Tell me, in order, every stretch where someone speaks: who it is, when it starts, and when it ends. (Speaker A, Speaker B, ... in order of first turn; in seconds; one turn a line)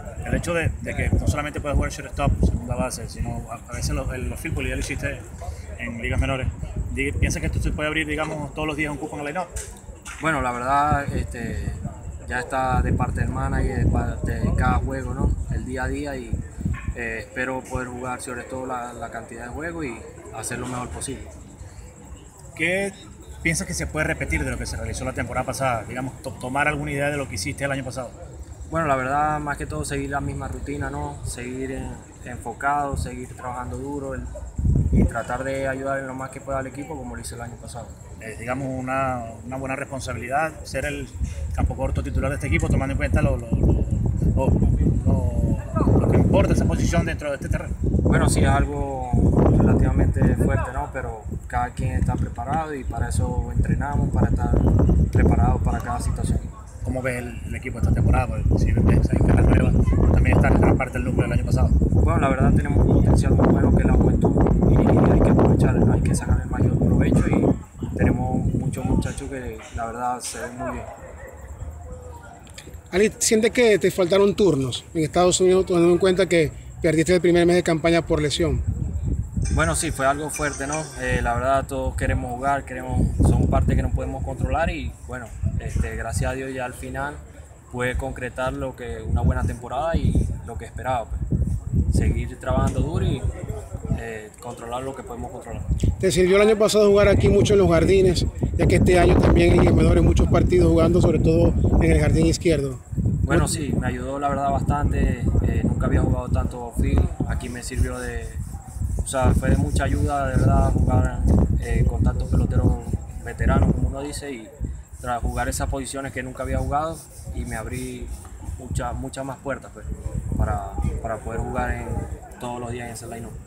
Speaker A: 0.2-5.2
Speaker A: 5.8-9.5
Speaker B: 10.2-16.4
Speaker B: 16.9-21.3
Speaker A: 22.5-28.1
Speaker B: 28.7-34.3
Speaker B: 34.9-38.0
Speaker A: 38.2-47.7
Speaker B: 48.0-56.5
Speaker A: 56.8-61.8
Speaker B: 62.0-70.9
Speaker C: 72.9-78.6
Speaker B: 79.5-91.2
Speaker B: 91.9-93.3
Speaker B: 93.9-95.7
Speaker C: 96.0-103.5
Speaker B: 103.2-108.4
Speaker B: 109.0-123.3